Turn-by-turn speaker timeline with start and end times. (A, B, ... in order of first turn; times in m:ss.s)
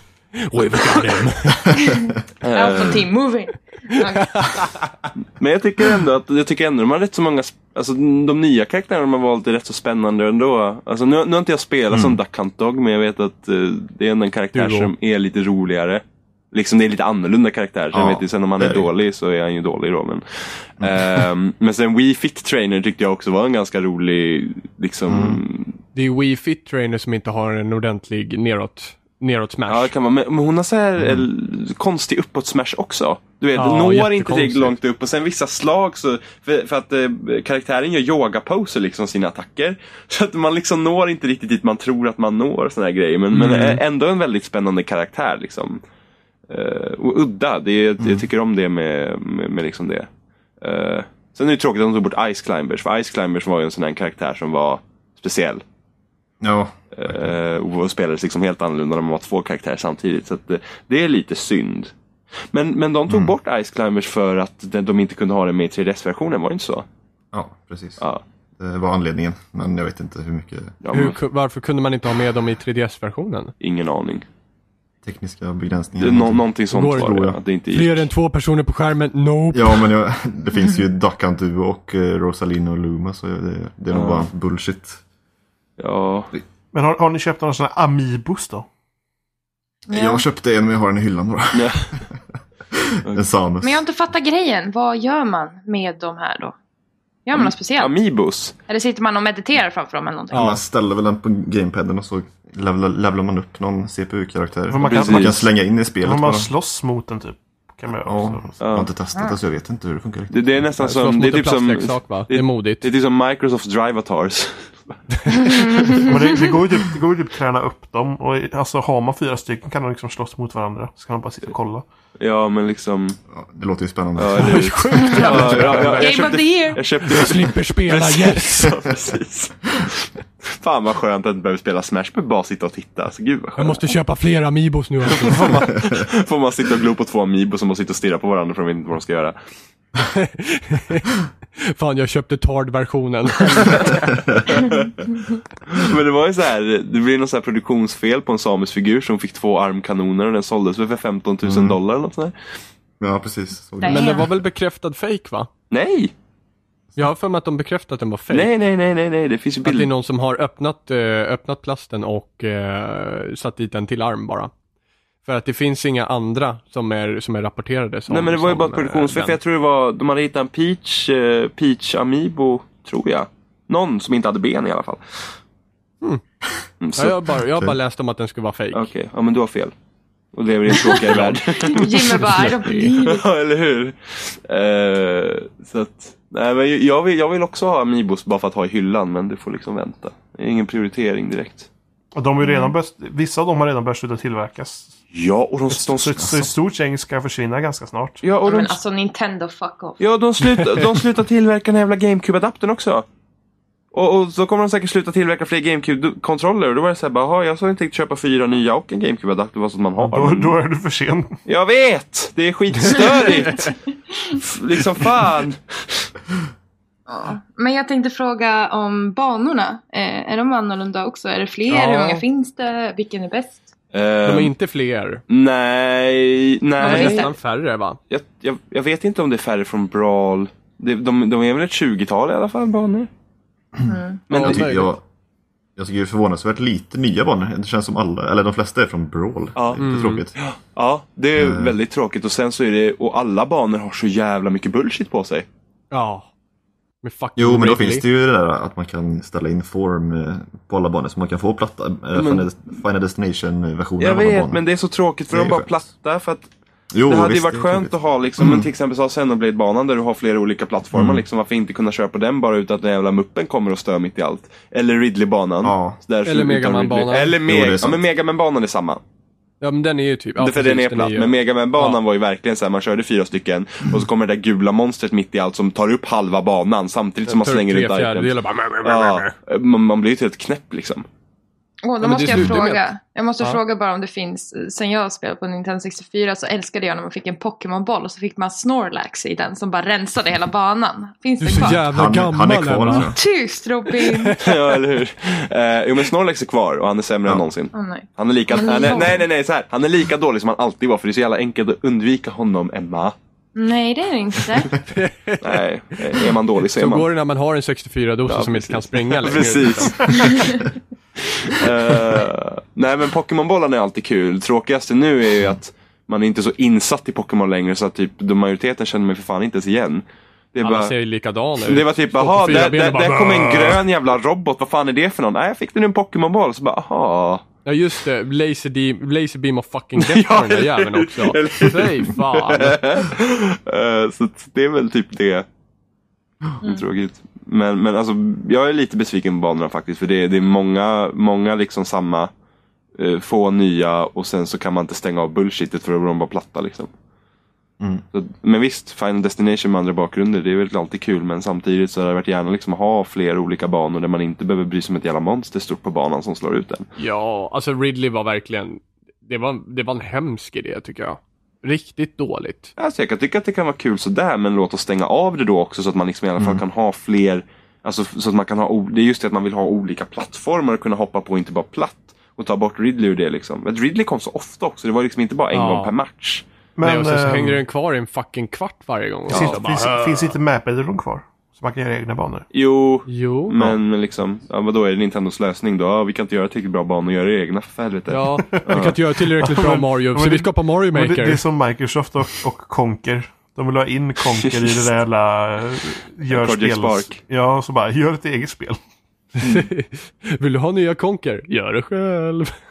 0:00.4-0:01.6 A
0:01.5-0:02.1 B
0:01.8-0:04.6 C
0:02.4-0:03.1 D
0:04.2-0:04.9 A
0:05.4-0:25.8 D
0:11.9-0:12.2 B
0:14.5-0:14.9 A
0:17.9-0:18.9 B
0:20.8-0:21.2 B
0:25.1-0:25.4 B
0:26.0-0:29.9 A
0:29.7-0:45.8 D
0:31.0-0:31.3 B
0:33.6-0:34.8 A
0:43.3-0:43.8 A
0:46.5-0:50.1 D
0:48.0-0:48.2 B
0:50.6-0:55.6 D
0:56.4-0:57.4 B
0:57.0-1:01.9 D
1:02.5-1:06.8 D
1:03.1-1:03.3 B
1:07.3-1:08.0 B
1:08.6-1:10.8 B
1:10.8-1:11.2 D
1:10.9-1:13.5 A
1:13.6-1:14.3 D
1:15.0-1:16.5 B
1:16.0-1:18.1 D
1:16.7-1:19.8 A
1:19.5-1:25.0 B
1:23.9-1:24.3 D
1:25.8-1:26.3 D
1:26.7-1:28.7 E
1:29.9-1:32.2 B
1:29.9-1:30.2 C
1:31.5-1:31.9 D
1:32.7-1:33.8 B
1:33.6-1:36.6 C
1:37.3-1:37.9 C
1:37.3-1:38.6 D
1:38.7-1:40.6 C
1:40.3-1:40.6 A
1:40.4-1:46.5 B
1:44.7-1:45.5 E
1:44.8-1:45.4 D
1:46.0-1:48.6 E
1:48.0-1:50.6 B
1:48.6-1:48.9 D
1:50.3-1:56.0 D
1:50.8-1:52.8 A
1:55.2-1:55.6 A
1:55.4-1:56.5 C
1:56.0-2:01.9 E
2:02.2-2:03.2 D
2:03.3-2:05.7 B
2:04.2-2:13.9 D
2:04.4-2:06.3 A
2:05.0-2:06.8 C
2:07.0-2:08.8 A
2:13.6-2:15.7 A
2:15.1-2:19.4 D
2:20.1-2:21.1 A
2:21.6-2:24.0 A
2:24.1-2:24.4 B
2:24.5-2:24.8 D
2:25.7-2:32.3 D
2:31.4-2:31.8 B
2:33.0-2:34.3 B
2:33.8-2:34.2 C
2:33.8-2:35.5 A
2:35.7-2:36.1 D
2:37.0-2:38.5 A
2:38.3-2:39.9 D
2:39.6-2:44.5 A
2:45.2-2:49.4 A
2:48.1-2:55.3 D
2:56.8-2:57.2 D
2:57.0-2:58.9 A
2:58.7-2:59.7 D
3:00.3-3:11.7 D
3:00.8-3:02.9 A
3:01.6-3:03.2 C
3:12.2-3:14.9 E
3:12.4-3:12.8 C
3:15.1-3:16.5 D
3:15.9-3:18.2 E
3:18.2-3:18.8 D
3:18.4-3:20.0 C
3:20.0-3:23.0 D
3:23.9-3:30.5 D
3:30.0-3:31.3 E
3:31.5-3:33.7 D
3:32.8-3:33.7 A
3:32.9-3:34.4 C
3:34.4-3:36.0 D
3:37.1-3:43.6 C
3:41.7-3:42.2 A
3:43.9-3:44.5 D
3:44.3-3:45.2 A
3:45.3-3:47.3 D
3:46.8-3:47.3 C
3:46.8-3:48.0 A
3:48.1-3:53.1 D
3:53.8-3:55.0 B
3:53.8-3:54.2 C
3:54.3-3:54.7 D
3:54.3-3:55.0 A
3:55.8-4:00.4 B
3:59.6-4:05.5 D
3:59.8-4:00.2 A
4:01.4-4:01.8 B
4:05.9-4:06.3 A
4:07.0-4:08.0 A
4:07.4-4:14.6 B
4:12.2-4:12.5 D
4:14.0-4:16.5 D
4:15.3-4:15.7 B
4:16.9-4:18.7 B
4:17.1-4:29.0 D
4:20.9-4:21.2 B
4:25.6-4:26.0 B
4:26.2-4:27.4 A
4:27.5-4:28.0 B
4:29.6-4:32.0 A
4:30.4-4:41.0 D
4:37.3-4:39.4 A
4:41.8-4:51.8 C
4:42.0-4:42.9 A
4:51.4-4:53.1 A
4:51.8-4:53.2 B
4:52.9-4:54.4 C
4:54.0-4:54.5 A
4:54.4-5:03.2 D
4:57.7-4:59.3 C
5:03.6-5:04.8 C
5:04.9-5:05.5 A
5:05.4-5:07.1 D
5:06.7-5:10.3 A
5:08.3-5:10.5 D
5:10.1-5:10.7 C
5:11.2-5:20.0 D
5:20.5-5:20.9 D
5:20.6-5:23.8 A
5:21.6-5:27.4 D
5:27.6-5:32.8 A
5:30.0-5:35.5 D
5:36.6-5:42.3 D
5:43.0-5:46.9 D
5:48.1-5:56.9 D
5:57.0-6:02.7 A
6:02.8-6:16.4 D
6:06.4-6:06.6 B
6:15.5-6:15.9 A
6:16.8-6:17.6 E
6:16.8-6:20.3 A
6:19.3-6:19.6 D
6:19.3-6:22.5 E
6:22.5-6:29.0 D
6:23.1-6:23.5 A
6:28.1-6:31.4 A
6:29.3-6:38.8 E
6:34.3-6:34.8 D
6:36.3-6:37.2 D
6:39.4-6:42.5 A